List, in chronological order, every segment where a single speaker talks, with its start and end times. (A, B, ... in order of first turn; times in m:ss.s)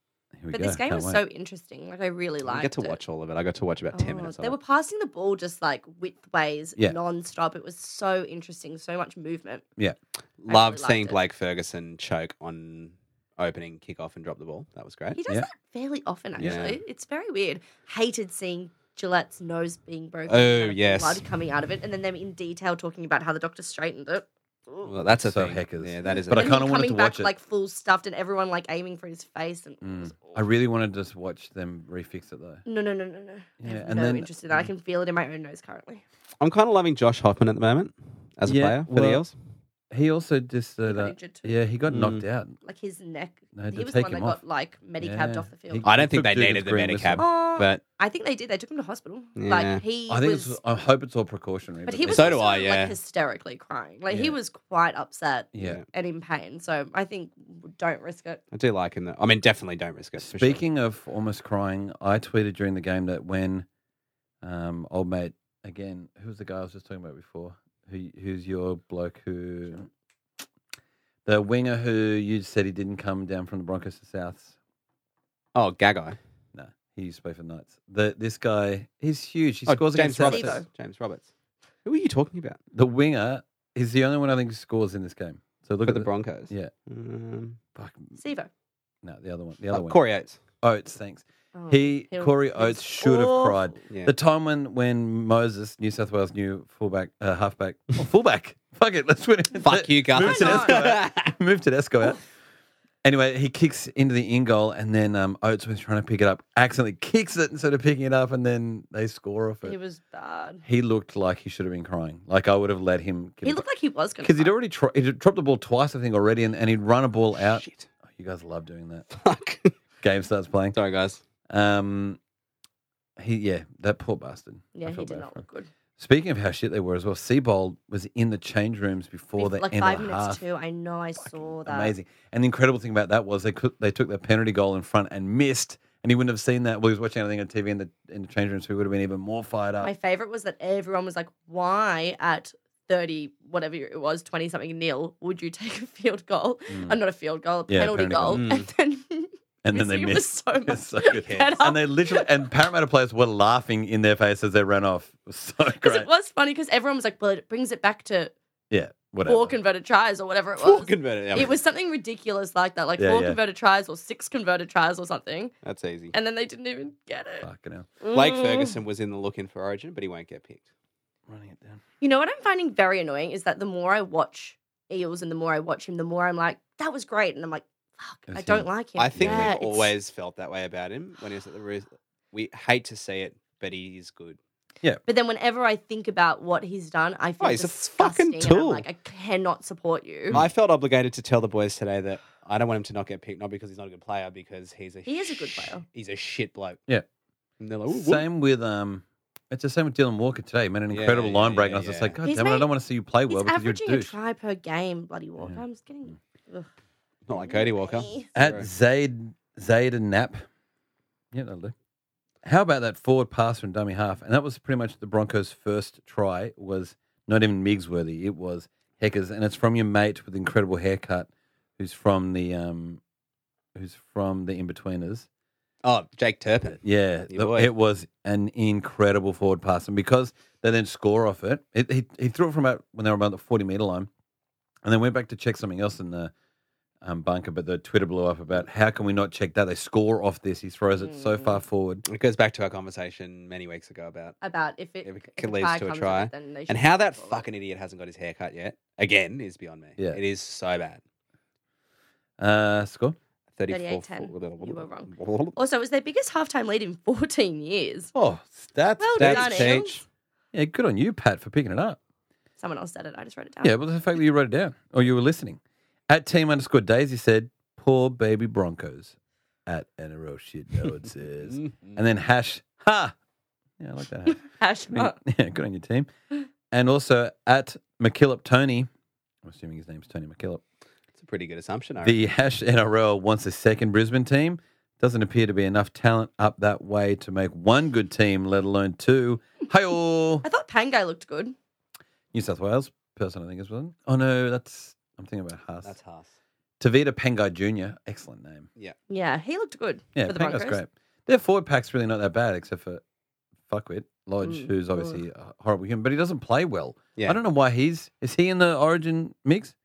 0:00.4-0:01.2 A
0:00.5-0:03.0 B
0:02.4-0:04.5 C
0:03.9-0:09.6 B
0:10.4-0:15.2 C
0:10.5-0:11.2 B
0:15.2-0:24.9 B
0:16.4-0:16.7 A
0:16.4-0:16.8 C
0:20.3-0:21.2 C
0:24.8-0:26.6 C
0:25.2-0:27.3 A
0:26.3-0:30.4 B
0:29.8-0:32.6 A
0:32.6-0:36.0 B
0:33.6-0:34.7 A
0:36.4-0:39.3 C
0:38.4-0:39.2 A
0:39.9-0:42.6 A
0:40.8-0:41.6 B
0:41.9-0:42.2 C
0:42.6-0:45.8 B
0:43.5-0:44.4 A
0:45.0-0:47.2 A
0:45.8-0:47.8 C
0:47.2-0:50.6 B
0:49.4-0:49.8 C
0:50.1-0:52.4 A
0:51.8-0:58.4 B
0:52.1-0:53.0 C
0:55.5-0:55.8 A
0:58.5-1:00.6 C
1:00.2-1:03.6 A
1:04.4-1:09.9 A
1:11.2-1:14.6 A
1:15.5-1:16.2 C
1:16.5-1:20.6 A
1:19.7-1:21.3 C
1:20.3-1:20.6 B
1:21.8-1:22.6 C
1:22.7-1:26.7 A
1:25.8-1:27.6 C
1:27.8-1:28.1 A
1:28.2-1:28.5 B
1:29.0-1:30.0 A
1:29.7-1:30.4 C
1:30.6-1:42.2 A
1:31.5-1:33.7 B
1:39.6-1:41.3 C
1:40.2-1:40.8 B
1:43.0-1:49.8 A
1:49.6-1:50.6 B
1:50.6-1:53.6 A
1:53.4-1:54.5 B
1:54.2-1:59.0 A
1:57.3-1:57.9 C
1:59.1-1:59.7 C
2:00.0-2:00.8 A
2:00.7-2:01.2 C
2:01.5-2:02.2 A
2:03.2-2:05.4 A
2:04.7-2:05.7 B
2:06.0-2:10.4 A
2:09.4-2:11.9 B
2:11.2-2:19.9 A
2:19.8-2:32.3 B
2:26.7-2:27.0 A
2:27.7-2:28.4 A
2:28.3-2:28.7 C
2:29.6-2:36.1 A
2:31.1-2:31.5 C
2:35.8-2:38.3 B
2:38.7-2:39.6 A
2:39.2-2:45.5 B
2:40.6-2:41.5 C
2:43.0-2:43.4 A
2:45.6-2:46.1 C
2:46.1-2:47.5 B
2:47.4-2:47.9 A
2:48.0-2:48.7 B
2:48.1-2:50.6 C
2:51.3-2:51.8 A
2:52.0-2:59.9 B
2:58.3-2:59.5 A
2:59.0-3:04.4 C
3:05.1-3:10.4 B
3:07.4-3:08.8 C
3:10.3-3:16.8 C
3:15.1-3:15.8 B
3:17.6-3:18.2 C
3:17.9-3:24.1 A
3:20.9-3:22.2 C
3:22.2-3:22.7 B
3:23.3-3:26.7 B
3:25.4-3:26.1 A
3:27.3-3:28.7 C
3:27.3-3:28.3 B
3:28.4-3:30.4 A
3:31.3-3:31.7 A
3:32.4-3:43.0 A
3:43.7-3:45.3 A
3:45.8-3:47.7 C
3:46.8-3:54.1 A
3:54.8-3:56.3 A
3:57.0-4:02.0 A
4:01.0-4:01.6 B
4:02.1-4:04.4 C
4:04.4-4:07.4 B
4:05.0-4:11.0 C
4:12.4-4:13.2 A
4:13.6-4:15.6 C
4:13.7-4:18.1 B
4:18.1-4:19.8 A
4:19.0-4:20.0 B
4:19.2-4:20.0 C
4:20.5-4:22.0 A
4:22.6-4:23.7 B
4:23.6-4:29.1 A
4:29.6-4:33.1 A
4:31.6-4:32.0 C
4:33.8-4:36.1 A
4:34.3-4:35.2 B
4:36.7-4:38.9 A
4:39.4-4:40.6 A
4:41.2-4:42.2 C
4:42.0-4:50.4 A
4:50.4-4:51.5 B
4:52.3-4:55.9 A
4:55.8-4:56.3 C
4:56.8-4:58.7 A
4:59.1-5:00.8 B
5:00.1-5:03.0 A
5:03.7-5:09.7 A
5:04.4-5:05.2 B